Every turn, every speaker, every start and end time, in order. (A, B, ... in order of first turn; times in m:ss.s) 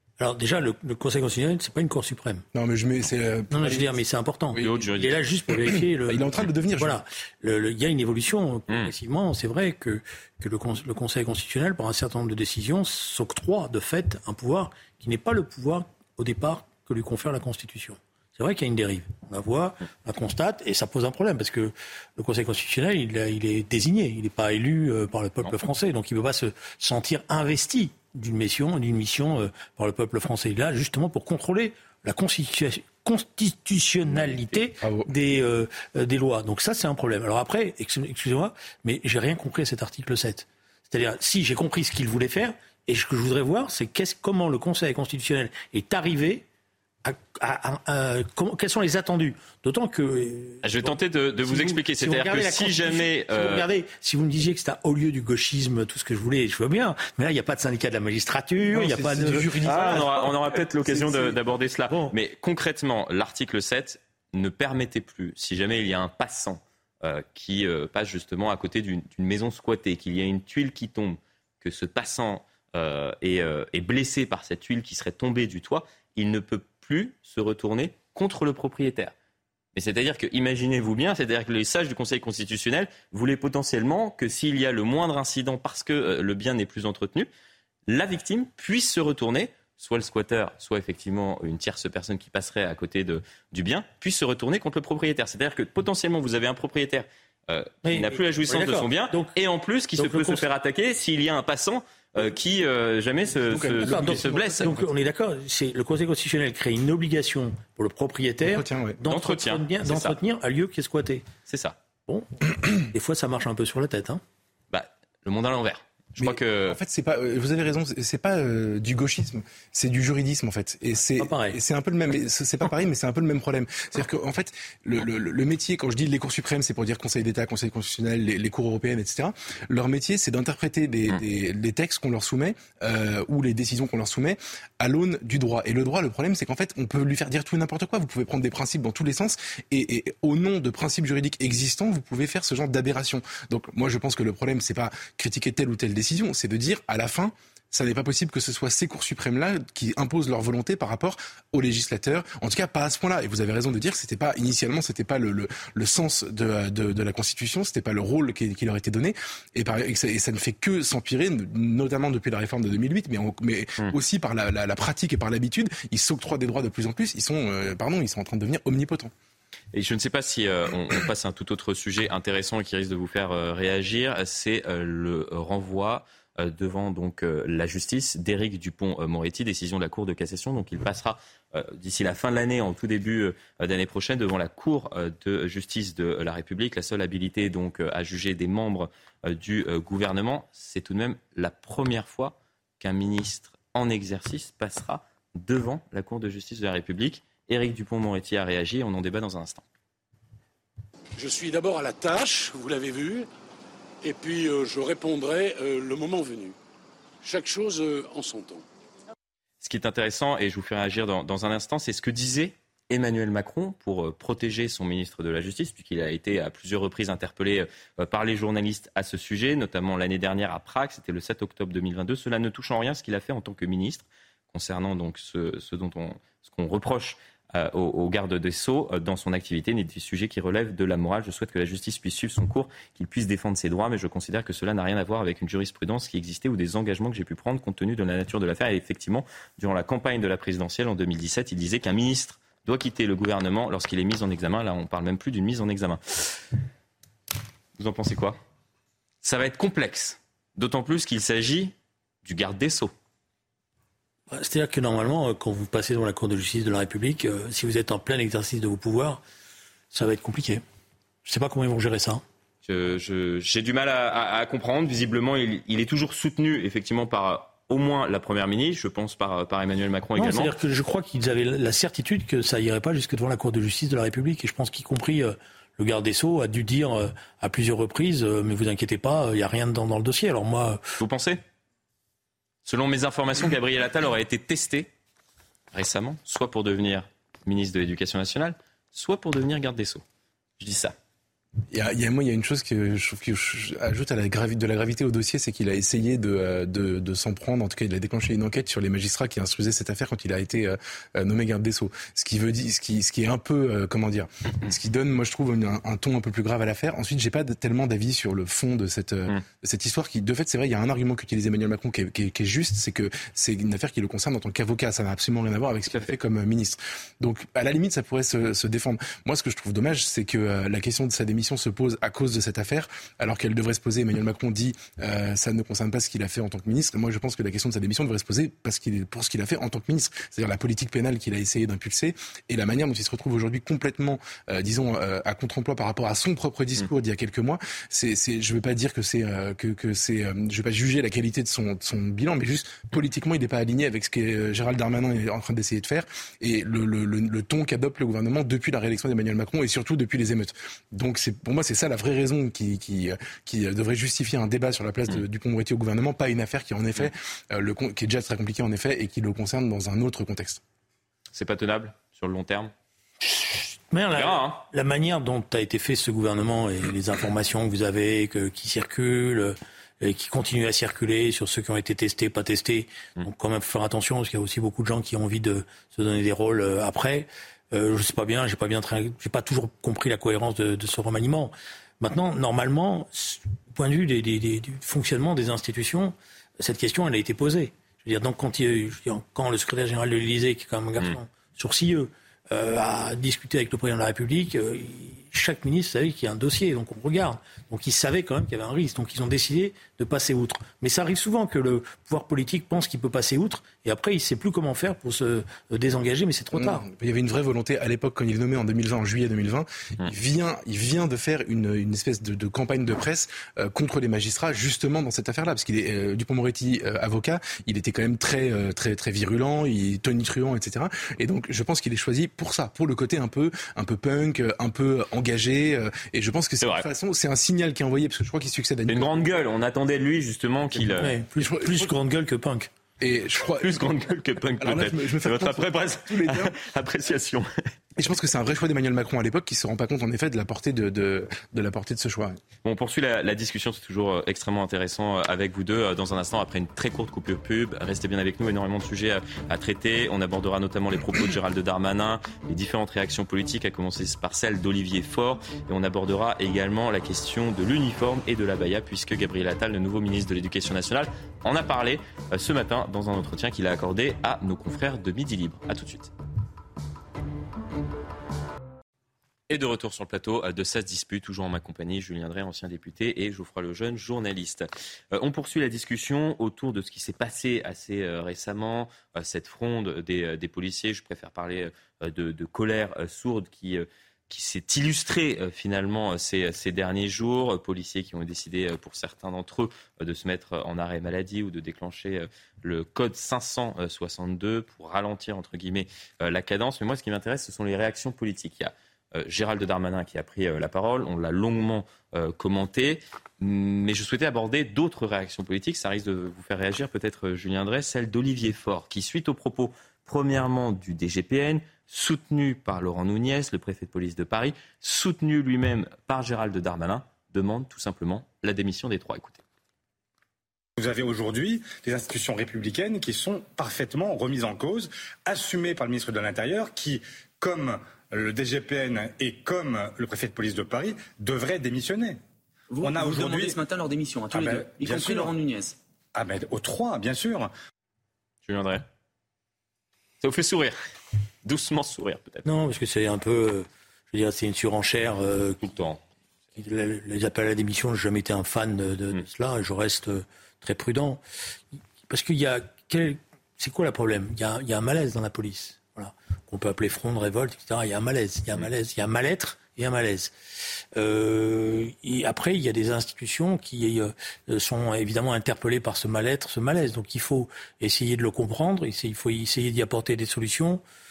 0:00.2-0:02.4 A
0:02.5-0:03.9 B
0:03.5-0:46.4 A
0:04.6-0:05.2 C
0:06.0-0:07.0 B
0:34.8-0:35.1 B
0:47.0-1:00.1 A
0:50.6-0:53.6 C
0:58.7-1:01.3 B
0:59.6-1:19.1 C
1:19.7-1:27.3 C
1:27.9-1:44.7 C
1:37.8-1:39.3 A
1:40.0-1:40.4 A
1:43.4-1:44.9 B
1:43.8-1:51.2 A
1:48.4-1:49.0 B
1:49.0-1:50.2 C
1:51.5-1:51.8 C
1:52.1-1:54.2 A
1:54.7-1:56.8 C
1:56.2-2:49.1 B
2:01.2-2:01.6 A
2:49.7-3:19.6 C
3:21.2-3:23.3 D
3:24.0-3:26.5 D
3:27.2-3:28.6 D
3:29.6-4:06.4 C
4:07.8-4:08.4 C
4:09.2-4:12.9 C
4:14.3-4:19.2 A
4:19.9-4:20.6 A
4:21.2-4:22.2 A
4:22.6-4:30.5 C
4:30.2-4:40.8 A
4:41.0-4:41.4 C
4:42.6-4:44.9 C
4:45.7-4:50.0 C
4:50.6-4:50.9 C
4:51.7-6:00.6 B
6:01.3-6:02.7 C
6:03.3-6:46.8 A
6:04.1-6:04.6 C
6:46.5-7:09.2 B
7:08.9-7:11.1 C
7:10.7-7:11.9 B
7:11.0-7:12.7 A
7:13.0-7:13.8 B
7:13.6-7:17.5 C
7:14.6-7:16.5 B
7:18.0-7:22.4 B
7:22.6-7:46.1 C
7:49.5-8:39.4 C
8:40.8-8:52.2 E
8:52.7-8:55.7 F
8:52.8-8:53.6 E
8:54.3-8:55.3 E
8:56.1-8:57.5 E
8:58.4-8:58.8 C
9:00.2-9:00.8 C
9:01.4-9:02.4 C
9:02.4-9:05.6 A
9:05.6-9:06.0 C
9:06.6-9:11.2 A
9:12.1-9:20.3 A
9:20.9-9:30.8 A